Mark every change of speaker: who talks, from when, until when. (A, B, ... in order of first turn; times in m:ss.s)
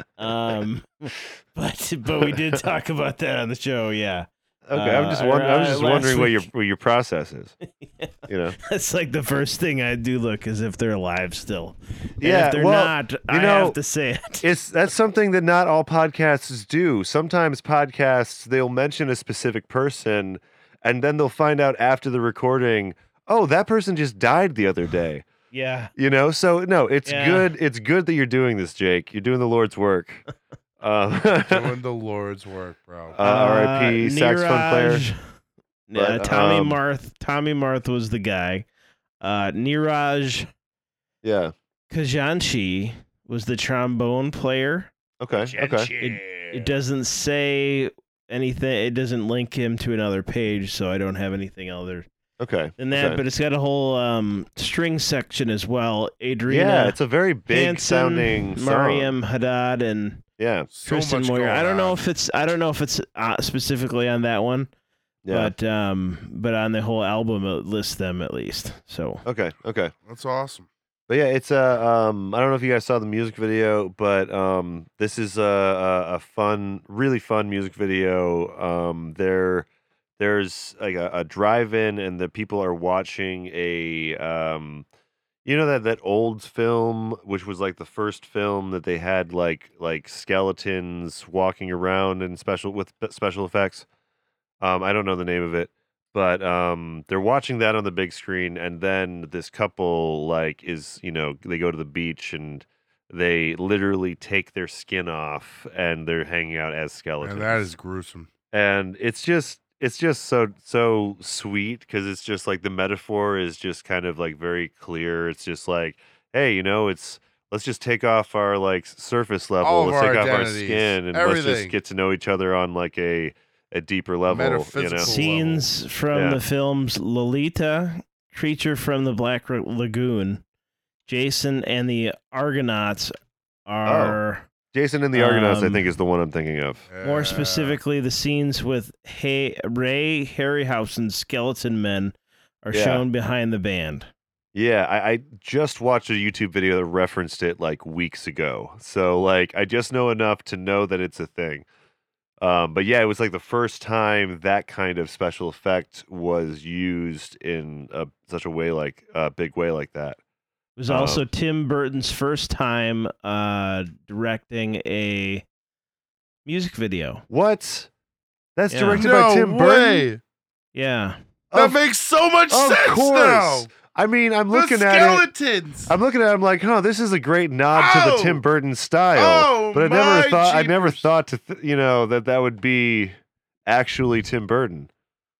0:00.2-0:06.4 A
0:04.6-0:07.6 B
0:07.7-0:14.5 A
0:08.3-0:08.6 B
0:12.2-0:13.8 B
0:14.4-0:25.3 B
0:25.5-0:25.9 A
0:26.0-0:30.2 B
0:27.0-0:27.5 A
0:30.8-0:31.7 B
0:31.4-0:33.2 C
0:33.1-0:35.0 B
0:33.2-0:35.2 A
0:35.9-0:38.6 A
0:35.9-0:36.8 B
0:39.2-0:40.5 A
0:41.2-0:41.5 B
0:41.9-0:44.9 A
0:45.2-0:45.9 B
0:45.6-0:46.1 C
0:46.0-0:52.1 A
0:52.4-0:53.2 B
0:52.8-0:57.0 A
0:56.5-0:59.2 B
0:57.5-1:00.2 A
1:00.4-1:00.7 B
1:00.7-1:02.0 C
1:00.8-1:04.7 A
1:05.2-1:05.5 B
1:05.3-1:09.2 A
1:09.2-1:09.9 B
1:10.0-1:10.7 C
1:11.1-1:19.7 B
1:20.2-1:24.9 B
1:25.4-1:33.9 B
1:34.6-1:47.7 B
1:47.2-1:48.3 C
1:48.5-2:05.1 B
1:59.6-2:01.8 C
2:04.3-2:05.6 C
2:05.0-2:10.4 A
2:06.1-2:06.4 B
2:11.0-2:13.1 A
2:13.7-2:14.5 A
2:13.8-2:14.2 B
2:14.7-2:16.9 B
2:15.1-2:15.9 A
2:16.9-2:17.8 C
2:17.0-2:24.1 A
2:22.7-2:23.0 B
2:24.5-2:31.7 B
2:32.4-2:40.2 B
2:40.8-2:45.4 A
2:40.9-2:41.2 B
2:46.4-2:47.2 A
2:47.3-2:47.9 B
2:48.6-2:50.1 B
2:48.7-2:49.0 A
2:48.9-2:50.2 C
2:50.7-2:51.2 A
2:51.5-2:51.8 B
2:51.5-2:53.7 C
2:52.5-2:55.3 B
2:54.5-2:55.9 C
2:55.9-3:04.9 B
2:57.7-2:58.4 C
2:59.1-3:01.0 C